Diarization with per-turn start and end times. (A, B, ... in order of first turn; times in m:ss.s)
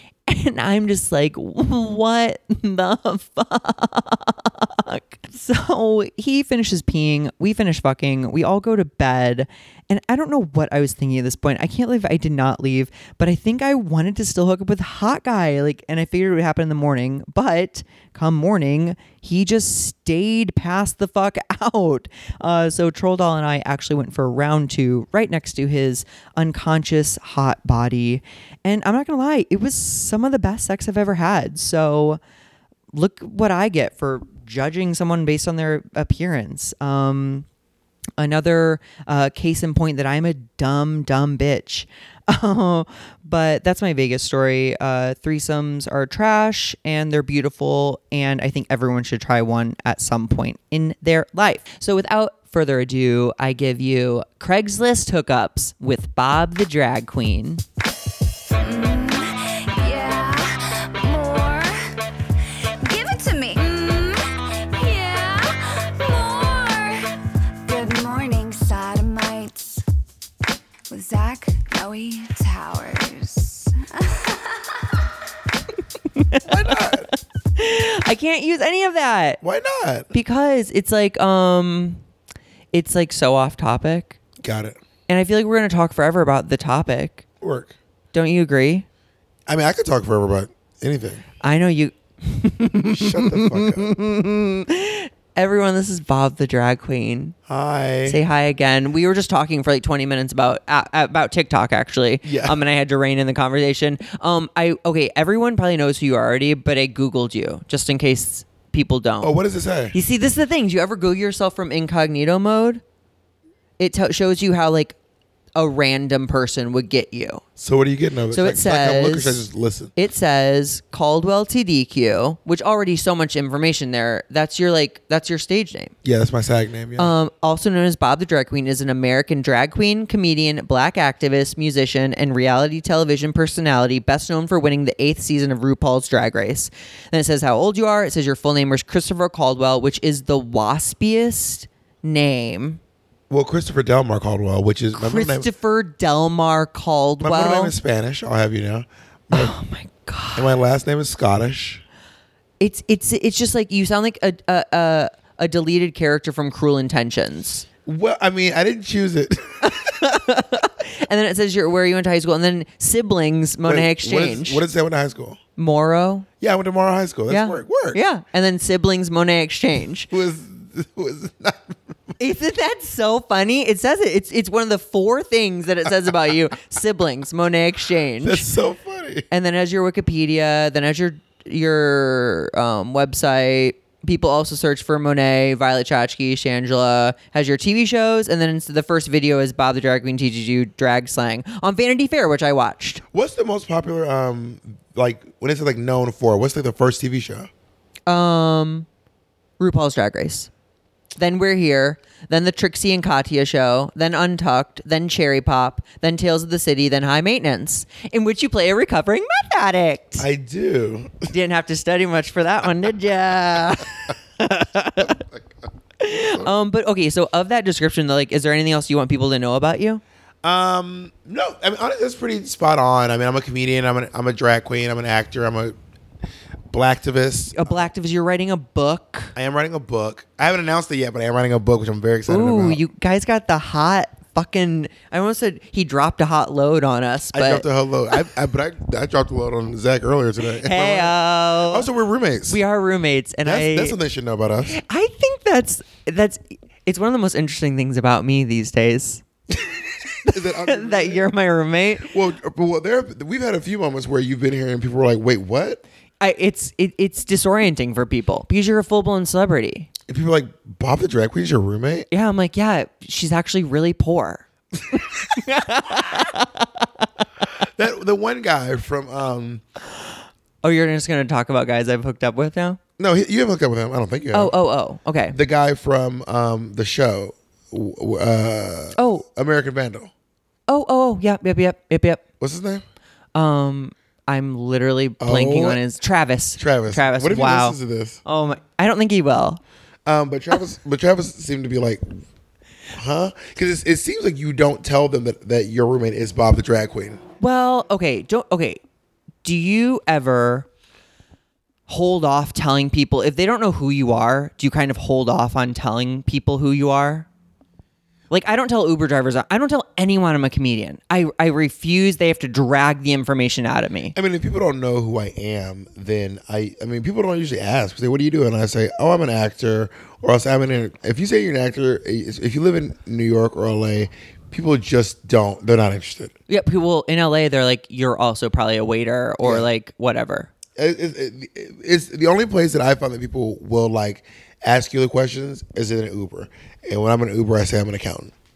0:00.3-0:32.2 A
0:32.9-0:37.5 A
0:38.2-0:57.6 A
0:58.5-1:09.8 B
1:10.9-1:15.1 B
1:16.1-1:19.4 A
1:16.4-1:17.1 C
1:19.4-1:20.1 C
1:20.1-1:22.0 A
1:22.7-1:24.2 A
1:24.4-1:24.8 C
1:25.1-1:27.2 A
1:27.4-1:27.7 C
1:28.1-1:28.9 A
1:29.5-1:31.2 C
1:31.4-1:37.4 A
1:32.7-1:33.9 C
1:37.5-1:38.2 C
1:38.0-1:49.3 A
1:42.2-1:42.6 C
1:49.2-1:50.0 C
1:49.9-1:52.8 A
1:53.8-1:55.0 A
1:55.6-1:57.4 A
1:57.6-1:59.9 C
1:58.3-1:59.4 A
2:00.0-2:05.9 A
2:06.0-2:07.1 C
2:07.0-2:22.8 A
2:23.3-2:25.5 C
2:24.9-2:27.8 A
2:27.2-2:29.5 C
2:29.3-2:30.5 A
2:30.4-2:31.8 C
2:32.6-2:37.7 A
2:37.9-2:39.9 C
2:39.6-2:44.6 A
2:43.7-2:45.4 C
2:45.6-2:46.3 A
2:46.4-2:48.0 C
2:47.3-2:50.1 A
2:50.1-2:51.9 C
2:52.2-2:58.5 A
2:58.2-2:59.3 C
2:59.3-3:13.0 A
3:13.1-3:17.5 C
3:18.1-3:18.9 A
3:19.6-3:20.5 A
3:21.2-3:30.3 A
3:30.2-3:31.3 C
3:31.3-3:35.2 A
3:35.0-3:35.5 C
3:36.0-3:40.0 A
3:40.4-3:45.8 C
3:46.7-3:47.9 C
3:47.5-3:49.4 A
3:49.4-3:52.8 C
3:52.3-3:58.2 A
3:57.3-4:02.6 C
4:00.5-4:01.9 A
4:02.5-4:04.0 A
4:03.4-4:04.8 C
4:04.6-4:09.2 A
4:10.2-4:11.3 C
4:10.2-4:12.1 A
4:12.0-4:15.8 C
4:16.2-4:19.9 A
4:20.1-4:22.1 C
4:22.1-4:26.9 A
4:27.6-4:29.6 C
4:30.6-4:32.8 A
4:33.0-4:34.5 C
4:34.3-4:35.4 A
4:35.3-4:40.1 C
4:39.0-4:39.3 A
4:40.7-4:42.2 A
4:42.4-4:42.8 C
4:43.4-4:49.6 A
4:45.2-4:45.8 C
4:46.6-4:48.2 C
4:50.1-4:52.0 C
4:52.9-4:57.2 C
4:57.4-4:58.8 A
4:59.4-5:00.7 A
5:01.9-5:07.3 A
5:08.3-5:14.2 A
5:14.2-5:26.3 C
5:26.5-5:30.5 A
5:30.8-5:38.3 C